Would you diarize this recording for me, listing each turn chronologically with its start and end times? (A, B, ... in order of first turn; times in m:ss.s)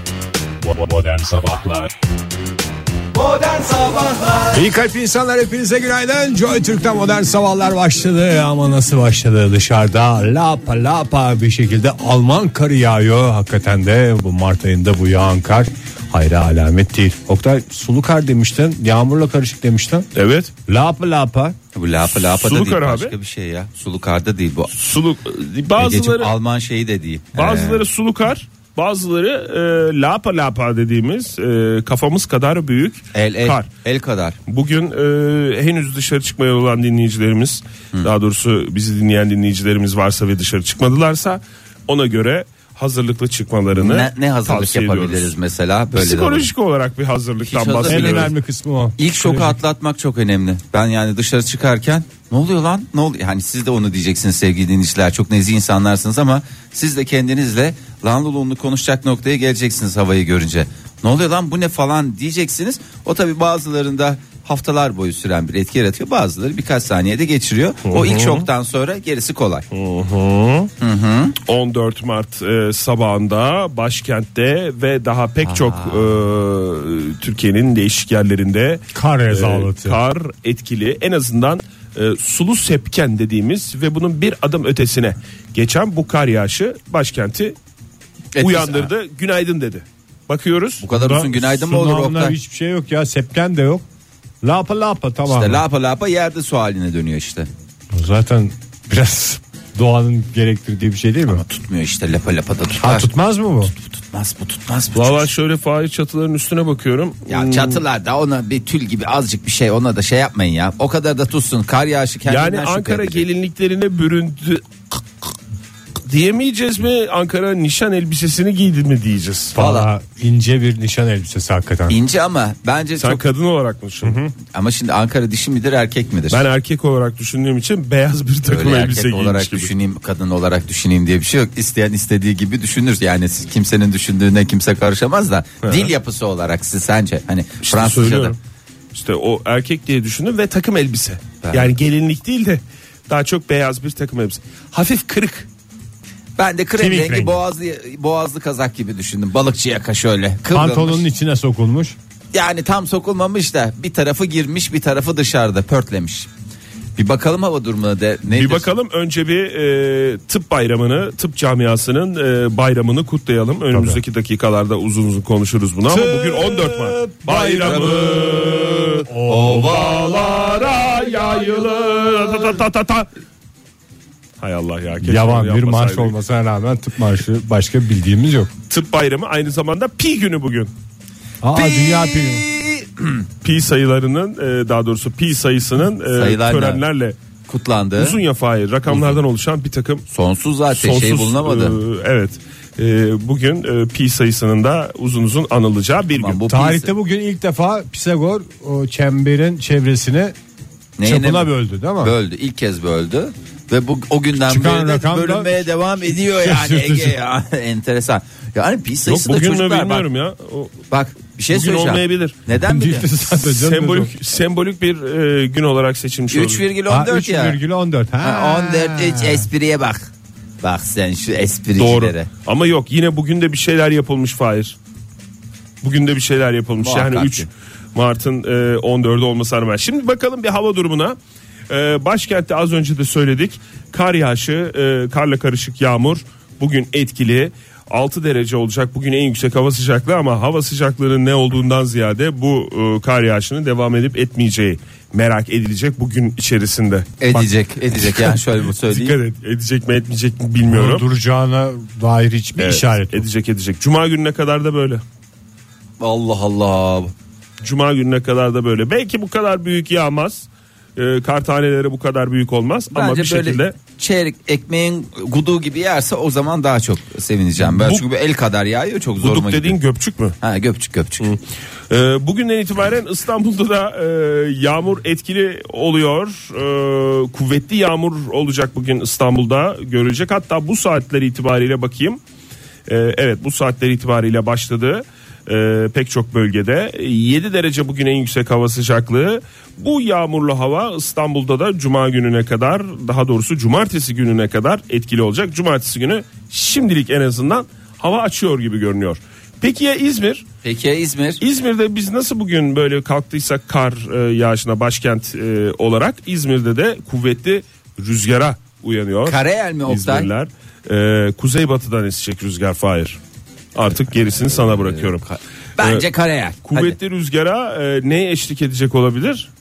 0:00.6-0:01.9 A
0:04.4-0:20.1 A
0:20.1-0:20.5 B
0:20.7-0:21.6 A
0:21.7-0:24.7 C
0:22.1-0:23.1 B
0:24.7-0:26.3 B
0:25.8-0:27.8 C
0:27.3-0:33.7 B
0:33.1-0:34.4 C
0:34.5-0:45.3 B
0:43.7-0:46.5 C
0:45.9-0:48.3 B
0:47.4-0:48.3 C
0:47.8-0:49.6 A
0:49.0-1:09.6 C
1:07.9-1:08.5 B
1:09.7-1:10.7 B
1:10.8-1:11.4 C
1:11.4-1:27.6 B
1:15.4-1:16.2 C
1:18.9-1:20.0 A
1:28.3-1:28.9 C
1:28.4-1:30.8 B
1:30.8-1:32.4 C
1:30.9-1:33.8 A
1:34.4-1:35.6 A
1:35.3-1:37.5 C
1:37.9-1:41.4 A
1:41.3-1:43.1 C
1:42.8-1:43.7 A
1:43.8-1:45.3 C
1:44.9-1:47.8 B
1:47.3-1:53.2 C
1:52.2-1:55.3 B
1:56.0-1:59.5 B
1:59.5-2:02.0 A
1:59.6-1:59.9 C
2:01.9-2:03.2 C
2:03.0-2:04.2 B
2:04.0-2:04.3 A
2:04.5-2:06.4 C
2:06.3-2:09.7 B
2:08.5-2:18.4 C
2:15.6-2:15.9 B
2:17.6-2:18.4 B
2:18.9-2:25.5 B
2:21.4-2:21.7 C
2:26.4-2:31.0 C
2:26.8-2:27.4 A
2:30.5-2:32.0 A
2:32.3-2:36.3 C
2:37.0-2:38.7 C
2:38.3-2:53.1 B
2:43.7-2:44.0 A
2:45.9-2:48.1 A
2:49.0-2:49.9 A
2:49.3-2:50.4 C
2:54.4-2:56.1 B
2:55.0-2:58.5 A
2:58.7-3:00.7 B
3:01.4-3:02.4 A
3:01.6-3:03.2 C
3:03.4-3:07.2 B
3:06.1-3:06.8 C
3:07.5-3:08.2 C
3:08.0-3:10.0 B
3:08.9-3:09.2 C
3:10.1-3:11.8 C
3:10.7-3:16.4 B
3:16.1-3:16.9 C
3:16.5-3:20.3 A
3:21.0-3:30.1 C
3:21.0-3:22.1 A
3:24.4-3:27.2 A
3:29.0-3:30.8 B
3:30.9-3:33.2 C
3:31.5-3:32.4 B
3:32.5-3:34.1 A
3:33.3-3:36.6 B
3:36.3-3:37.6 C
3:36.9-3:39.5 A
3:38.2-3:40.1 C
3:40.6-3:42.3 C
3:41.8-3:44.8 B
3:45.8-3:51.2 B
3:46.8-3:47.5 C
3:51.7-4:11.0 B
4:07.2-4:09.2 C
4:10.6-4:13.3 A
4:12.6-4:15.0 B
4:16.0-4:17.1 C
4:17.6-4:23.7 B
4:22.9-4:29.8 C
4:27.6-4:28.0 B
4:29.2-4:30.4 B
4:30.4-4:31.3 C
4:31.9-4:42.2 B
4:42.9-5:00.4 B
5:00.6-5:01.4 C
5:01.4-5:13.2 B
5:09.2-5:10.3 C
5:13.7-5:15.2 B
5:14.6-5:17.0 C
5:15.8-5:16.0 B
5:16.6-5:19.5 B